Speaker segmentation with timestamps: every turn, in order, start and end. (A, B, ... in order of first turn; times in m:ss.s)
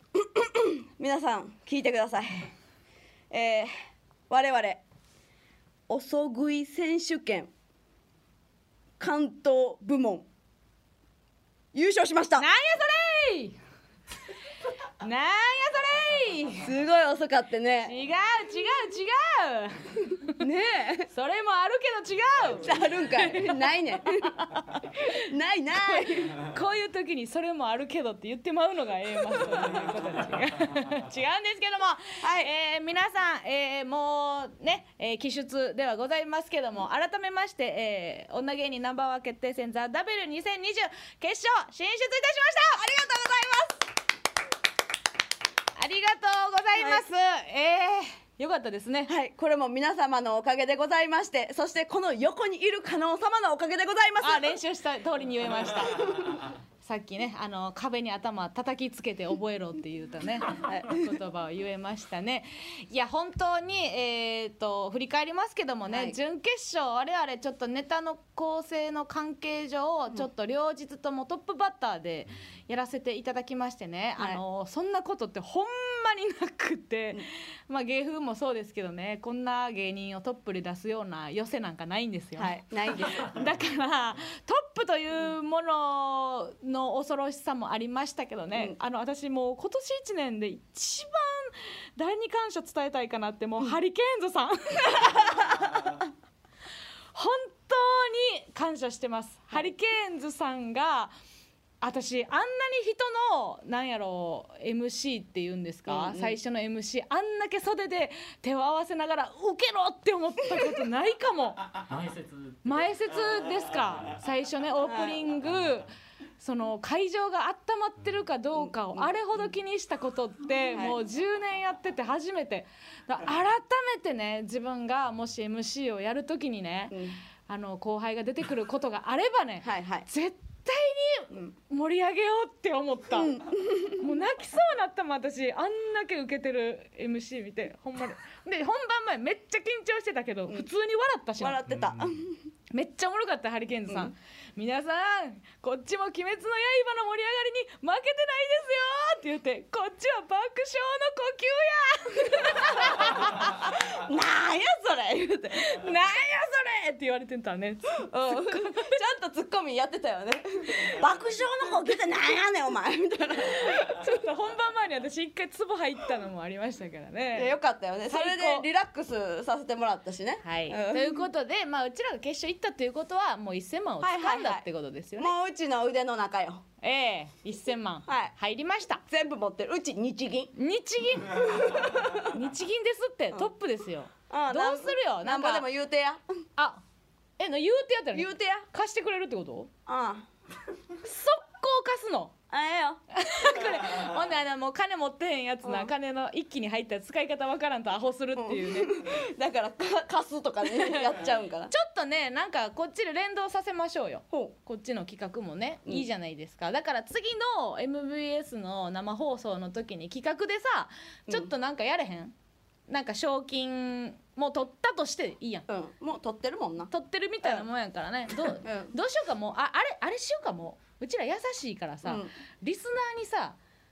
0:00.2-0:02.5 A
0:03.3-0:03.7 A
0:04.3-0:04.8 A
0:05.9-0:07.5 A
0:09.0-0:10.3 A
0:11.7-0:12.4 A
0:12.4-0:13.6 B
0:15.0-0:16.7 B
0:16.6-0:17.9 A
0:17.8-0:20.4 B
0:20.4-0:21.1 A
0:21.1-0:23.6 B
0:22.6-0:24.4 A
0:24.4-0:25.0 B
0:25.0-0:26.4 A
0:26.3-0:42.8 B
0:32.2-0:32.5 A
0:42.8-0:43.8 A
0:45.8-0:49.1 B
0:46.8-0:47.0 A
0:49.1-0:54.5 A
0:54.2-0:56.1 B
0:56.8-1:36.0 B
1:00.7-1:01.0 A
1:05.9-1:06.2 A
1:22.4-1:23.3 A
1:37.1-1:41.1 B
1:41.8-1:51.7 B
1:45.9-1:46.4 A
1:52.6-2:13.4 B
1:54.8-1:55.2 A
1:58.5-1:59.5 A
2:00.7-2:01.0 A
2:06.9-2:07.2 A
2:09.6-2:10.1 A
2:13.1-2:14.0 A
2:14.0-2:21.6 B
2:21.4-2:22.5 A
2:22.7-2:33.7 B
2:23.9-2:24.1 A
2:32.8-2:35.8 A
2:35.5-2:39.0 B
2:38.1-2:43.8 A
2:43.6-2:47.5 B
2:47.3-2:51.3 A
2:48.1-2:48.7 B
2:50.4-2:55.3 B
2:54.0-2:54.6 A
2:55.2-2:56.6 A
2:56.8-2:59.0 B
2:58.0-2:58.3 A
2:59.1-3:00.5 A
3:00.5-3:05.6 B
3:01.5-3:02.2 A
3:04.3-3:06.2 A
3:07.4-3:09.7 B
3:08.1-3:08.6 A
3:09.9-3:10.2 A
3:11.0-3:12.3 B
3:12.5-3:13.0 A
3:13.1-3:18.9 B
3:15.6-3:15.9 A
3:18.4-3:21.7 A
3:20.7-3:21.0 B
3:21.7-3:32.3 B
3:32.9-3:35.6 B
3:35.7-3:36.9 A
3:36.9-3:43.6 B
3:38.4-3:38.9 A
3:42.0-3:42.3 A